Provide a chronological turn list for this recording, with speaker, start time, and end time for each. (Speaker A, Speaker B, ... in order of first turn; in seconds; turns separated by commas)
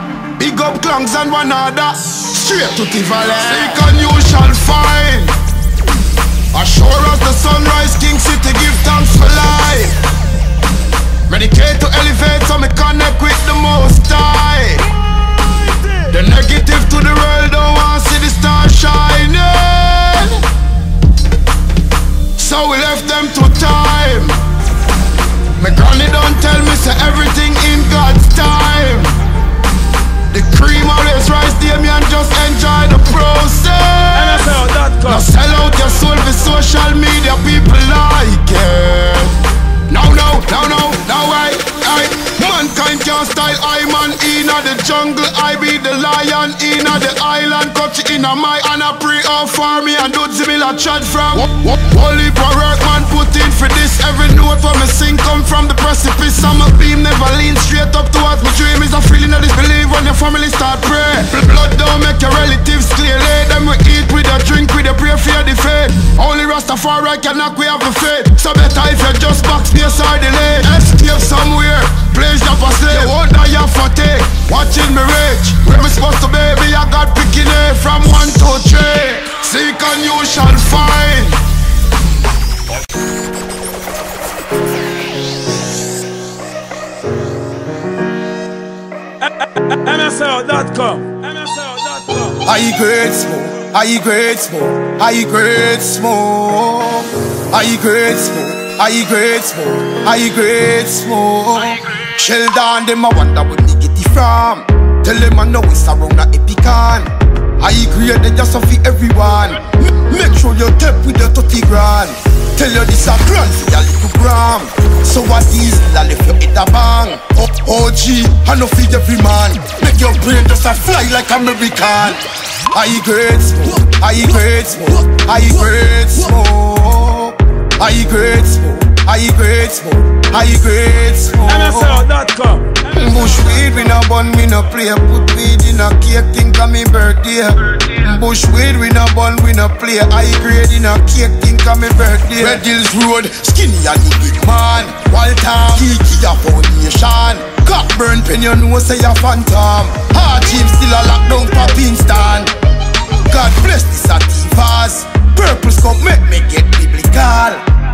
Speaker A: 0.4-5.3, Speaker A: 6.5-9.9, Speaker A: 11.3-14.8, Speaker A: 16.1-20.3, Speaker A: 22.4-24.4, Speaker A: 25.6-29.1, Speaker A: 30.3-39.3, Speaker B: 34.1-35.3, Speaker A: 39.9-81.4, Speaker B: 89.2-92.3, Speaker A: 92.4-122.2, Speaker A: 122.7-132.0, Speaker B: 131.4-133.9, Speaker A: 132.9-152.5, Speaker A: 153.3-157.6